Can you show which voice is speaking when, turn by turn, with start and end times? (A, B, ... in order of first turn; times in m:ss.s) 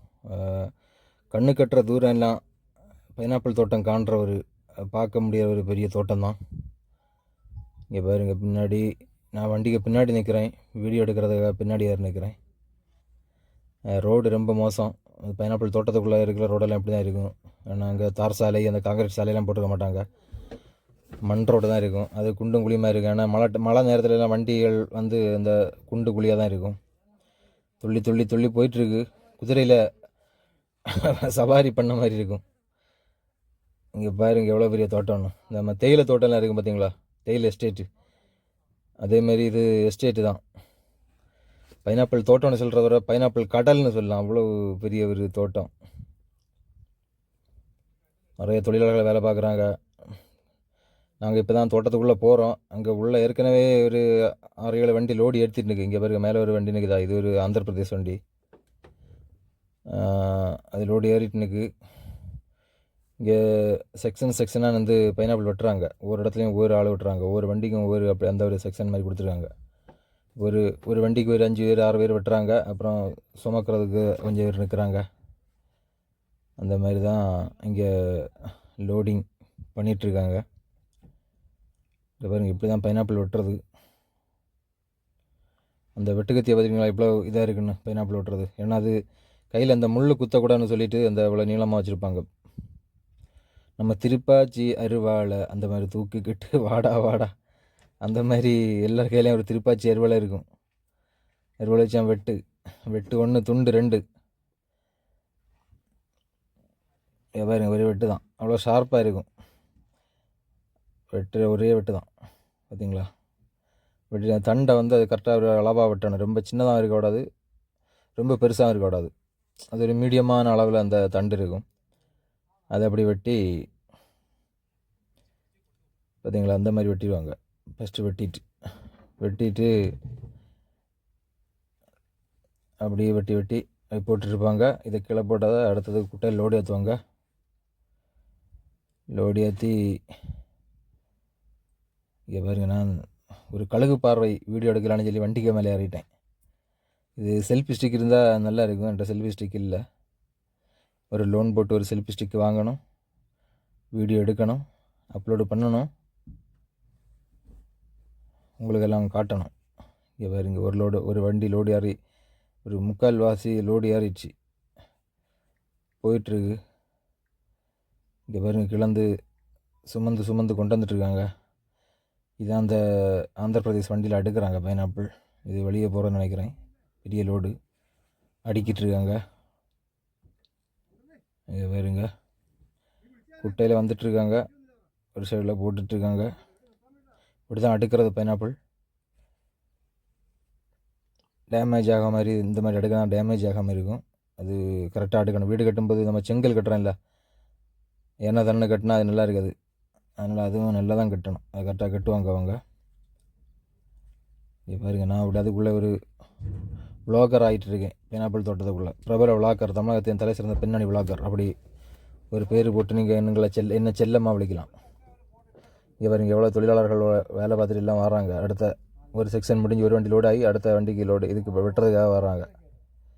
0:00.2-0:00.7 A
0:01.3-0:02.4 A
0:03.2-0:04.4 A
0:04.9-0:06.4 A
0:07.9-0:12.4 A
0:13.9-0:20.0 A
0:21.2-0:26.8 A
0:27.8-0:29.8 A
0:30.8-0:32.4 A
0:33.9-0:37.9 A
0:39.0-0:40.4 A
0:41.8-0:45.7 A
0:48.4-0:49.7 A
0:51.2-0:58.2 A
0:59.9-1:01.7 A
1:03.2-1:09.5 A
1:10.4-1:15.0 A
1:16.6-1:20.4 A
1:22.2-1:23.6 A
1:26.0-1:29.0 A
1:29.5-1:32.2 A
1:33.8-1:37.3 A
1:38.0-1:40.4 A
1:41.6-1:44.0 A
1:47.4-1:49.3 A
1:51.1-1:52.1 A
1:52.7-1:53.1 A
1:54.1-1:57.2 A
1:58.2-1:59.1 A
1:59.7-2:01.6 A
2:02.7-2:03.4 A
2:06.2-2:08.4 A
2:09.2-2:09.7 A
2:12.8-2:17.0 A
2:19.1-2:19.8 A
2:22.3-2:23.0 A
2:23.5-2:26.0 A
2:27.2-2:29.8 A
2:31.1-2:32.8 A
2:33.9-2:34.6 A
2:35.1-2:35.9 A
2:38.6-2:39.5 A
2:40.2-2:42.0 A
2:42.6-2:44.3 A
2:46.0-2:46.6 A
2:48.3-2:49.1 A
2:49.9-2:51.3 A
2:52.4-2:57.5 A
2:58.4-2:59.2 A
3:01.5-3:02.1 A
3:03.4-3:04.4 A
3:05.1-3:06.3 A
3:07.5-3:08.6 A
3:11.5-3:16.9 A
3:18.2-3:19.5 A
3:20.2-3:22.6 A
3:24.7-3:26.0 A
3:27.1-3:31.5 A
3:32.3-3:34.7 A
3:36.0-3:42.5 A